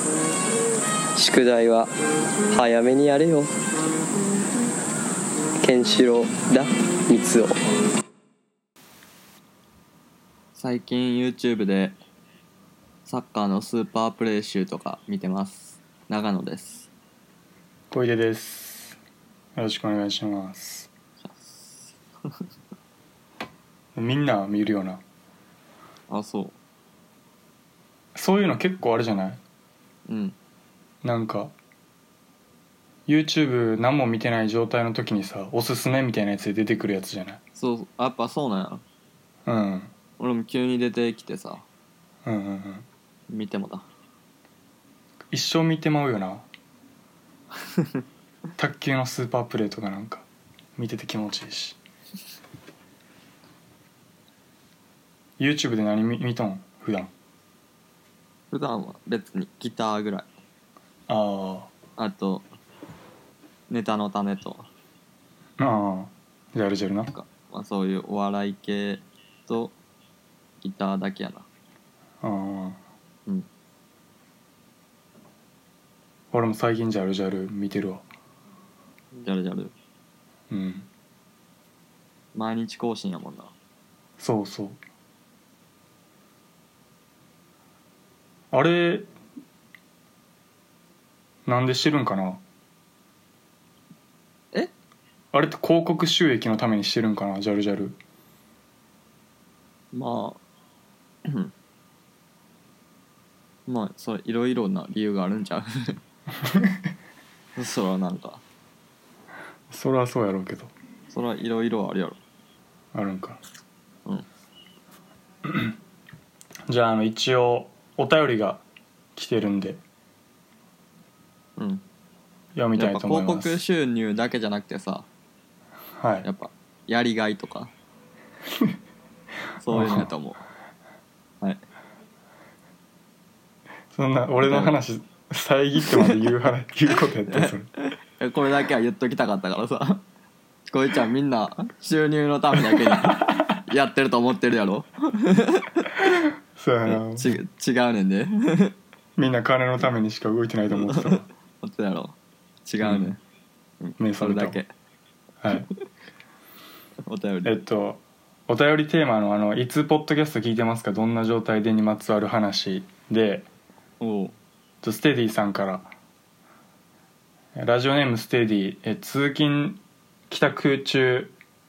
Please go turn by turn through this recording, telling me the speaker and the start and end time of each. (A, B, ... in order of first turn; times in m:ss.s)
0:01.2-0:01.9 A
0:02.5-0:03.5 A
0:05.6-0:07.6 A
0:10.5-0:12.0 B
0:13.0-0:16.9 B
0:17.9-0:19.0 C
0:19.6-0:20.9 C
0:21.2-0:22.4 B
0:24.0-0:25.0 C
0:26.1-0:26.6 B
0:28.1-0:29.4 C
0:30.1-0:30.4 B
0:31.0-0:31.5 C
0:33.1-0:37.4 C
0:37.5-0:38.8 B
0:39.4-0:39.9 C
0:40.2-0:41.6 B
0:42.2-0:42.8 C
0:43.3-0:43.8 B
0:45.3-0:46.4 C
0:48.6-0:51.8 C
0:55.4-0:57.1 C
0:58.5-1:00.3 B
1:01.1-1:01.7 C
1:02.0-1:02.5 B
1:03.7-1:04.7 B
1:05.6-1:07.1 C
1:07.1-1:09.8 B
1:10.6-1:11.5 B
1:12.2-1:12.8 C
1:16.3-1:18.0 C
1:19.2-1:19.7 B
1:20.5-1:20.9 C
1:22.3-1:23.5 B
1:24.2-1:24.8 C
1:28.5-1:29.1 C
1:31.5-1:32.4 C
1:35.3-1:38.0 C
1:39.9-1:40.4 B
1:41.2-1:41.5 B
1:43.7-1:45.9 B
1:46.5-1:46.8 C
1:47.6-1:48.4 B
1:49.7-1:50.7 C
1:51.1-1:52.2 B
1:52.9-1:53.4 C
1:55.4-1:55.7 C
1:56.7-1:58.6 C
1:59.2-1:59.8 C
2:01.6-2:01.8 B
2:02.5-2:03.6 C
2:02.7-2:05.1 B
2:06.0-2:06.3 C
2:06.2-2:07.7 B
2:09.6-2:10.4 B
2:09.7-2:10.1 C
2:13.9-2:17.7 C
2:14.4-2:14.8 B
2:15.9-2:16.2 B
2:17.3-2:20.0 B
2:20.7-2:26.1 B
2:22.7-2:23.4 C
2:26.6-2:27.4 C
2:26.8-2:28.7 B
2:29.2-2:31.3 C
2:30.8-2:33.2 B
2:32.8-2:33.1 C
2:33.8-2:34.7 B
2:34.0-2:34.6 C
2:35.4-2:35.7 C
2:37.1-2:37.6 B
2:37.4-2:43.5 C
2:44.0-2:44.4 B
2:44.8-2:45.9 C
2:47.6-2:51.3 C